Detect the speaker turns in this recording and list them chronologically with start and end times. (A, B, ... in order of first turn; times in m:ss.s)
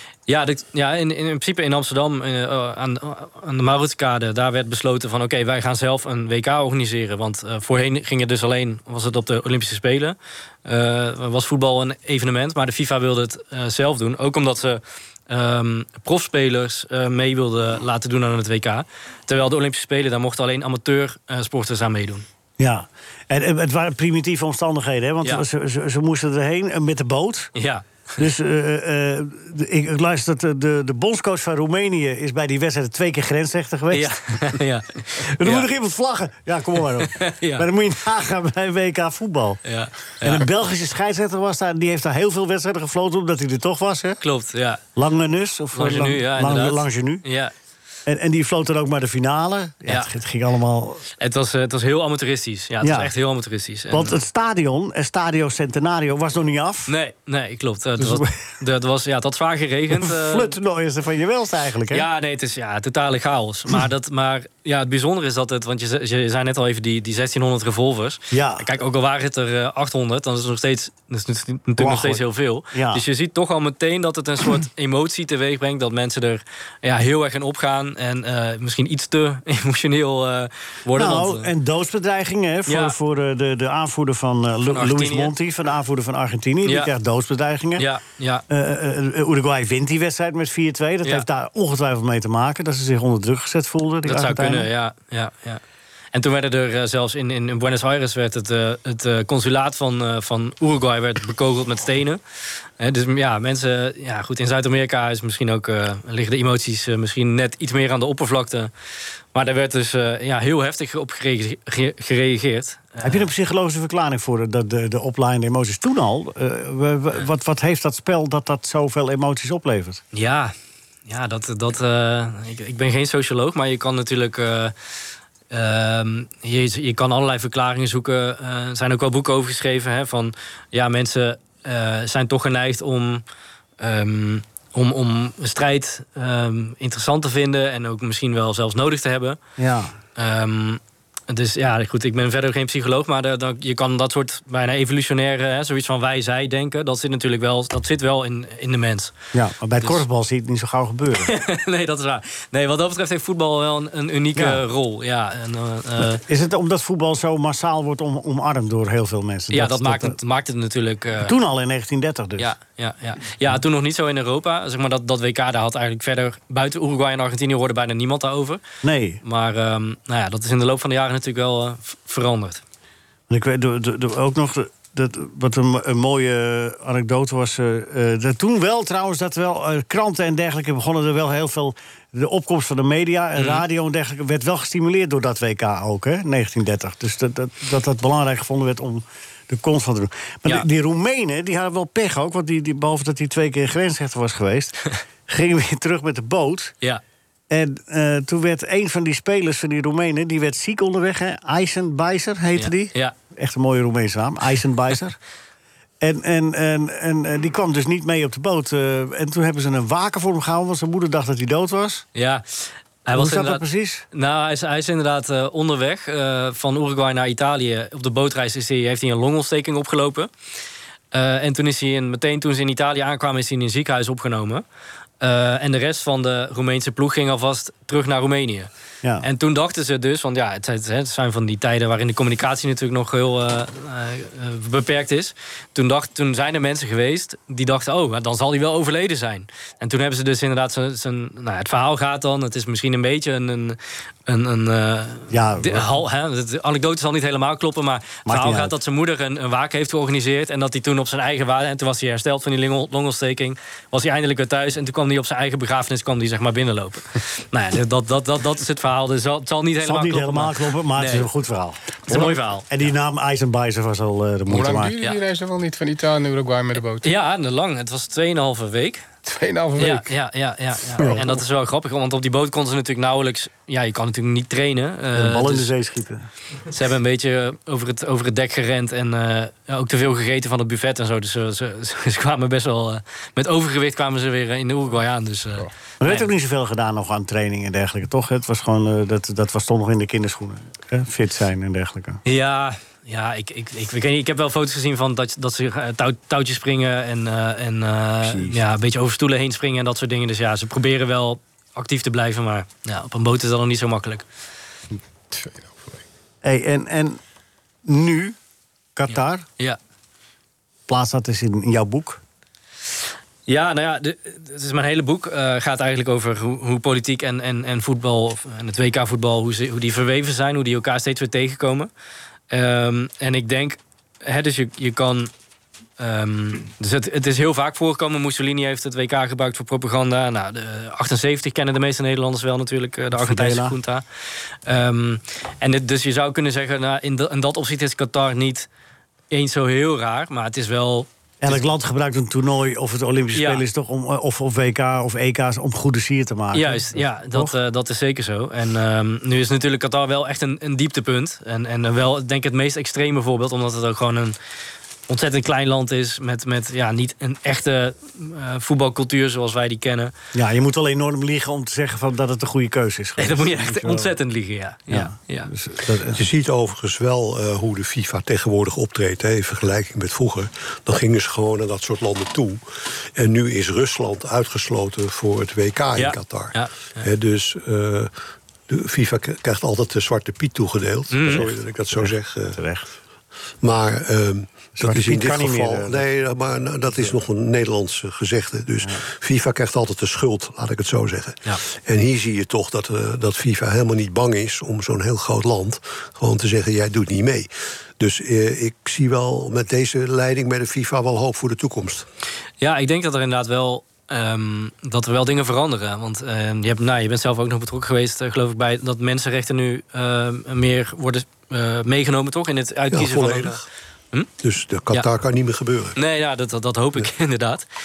0:00.3-0:22.2 A
0:22.6-0:27.5 B
0:27.6-0:27.8 A
0:28.2-0:34.4 B
0:33.9-0:35.7 A
0:35.2-0:39.6 B
0:37.0-0:37.6 A
0:39.6-0:40.5 A
0:40.2-0:44.2 B
0:44.2-0:44.8 A
0:45.0-0:47.2 B
0:45.7-0:47.5 A
0:48.1-0:51.0 B
0:51.2-0:54.2 A
0:52.8-0:53.1 B
0:53.9-0:56.9 B
0:56.9-1:00.5 A
0:58.0-0:58.3 B
0:59.9-1:02.0 B
1:01.9-1:21.5 A
1:08.3-1:08.6 B
1:11.8-1:13.0 B
1:20.9-1:27.8 B
1:22.7-1:22.9 A
1:24.6-1:25.3 A
1:26.6-1:26.9 A
1:27.8-1:28.4 A
1:28.5-1:34.7 B
1:34.0-1:35.6 A
1:36.1-1:42.2 A
1:42.8-1:48.7 A
1:49.3-1:53.3 A
1:53.0-2:00.0 B
2:00.1-2:00.5 A
2:01.1-2:04.7 A
2:05.5-2:13.2 A
2:13.8-2:19.4 A
2:19.6-2:19.9 B
2:20.2-2:29.1 A
2:29.3-2:31.3 B
2:31.2-2:36.2 A
2:34.4-2:34.6 B
2:36.3-2:40.2 B
2:39.5-2:41.3 A
2:41.2-2:42.5 B
2:42.4-2:48.6 A
2:48.8-2:49.2 B
2:49.2-2:52.6 A
2:53.3-3:16.7 B
3:03.4-3:03.6 A
3:17.5-3:25.2 B
3:22.6-3:23.1 A
3:26.0-3:32.0 B
3:32.1-3:40.3 A
3:33.1-3:34.0 B
3:41.1-3:44.6 A
3:45.2-3:48.7 A
3:49.2-4:21.3 A
4:05.3-4:05.9 B
4:08.3-4:08.7 B
4:19.8-4:24.9 B
4:22.1-4:22.9 A
4:24.5-4:27.1 C
4:27.0-4:29.0 A
4:29.2-4:30.1 C
4:29.8-4:35.7 A
4:35.1-4:36.2 B
4:36.7-4:46.3 A
4:46.0-4:52.2 B
4:52.2-5:04.2 A
4:58.2-4:58.6 B
5:05.3-5:05.6 C
5:06.4-5:07.2 B
5:07.8-5:08.4 B
5:09.0-5:09.4 B
5:10.9-5:12.2 B
5:13.5-5:21.9 A
5:22.5-5:25.3 A
5:26.0-5:34.0 A
5:33.2-5:33.7 B
5:34.6-5:38.7 A
5:39.3-5:41.6 A
5:41.4-5:47.5 B
5:43.3-5:43.6 A
5:46.5-5:54.4 A
5:55.1-6:00.1 A
6:00.3-6:04.1 B
6:03.2-6:05.5 A
6:04.9-6:06.2 B
6:06.1-6:12.6 D
6:13.1-6:18.1 D
6:16.0-6:17.0 A
6:18.7-6:22.6 D
6:21.1-6:21.4 A
6:22.0-6:22.8 B
6:23.6-6:42.0 D
6:24.8-6:26.0 B
6:42.6-6:53.6 A
6:52.9-6:53.6 D
6:54.4-6:56.0 D
6:56.0-6:57.6 A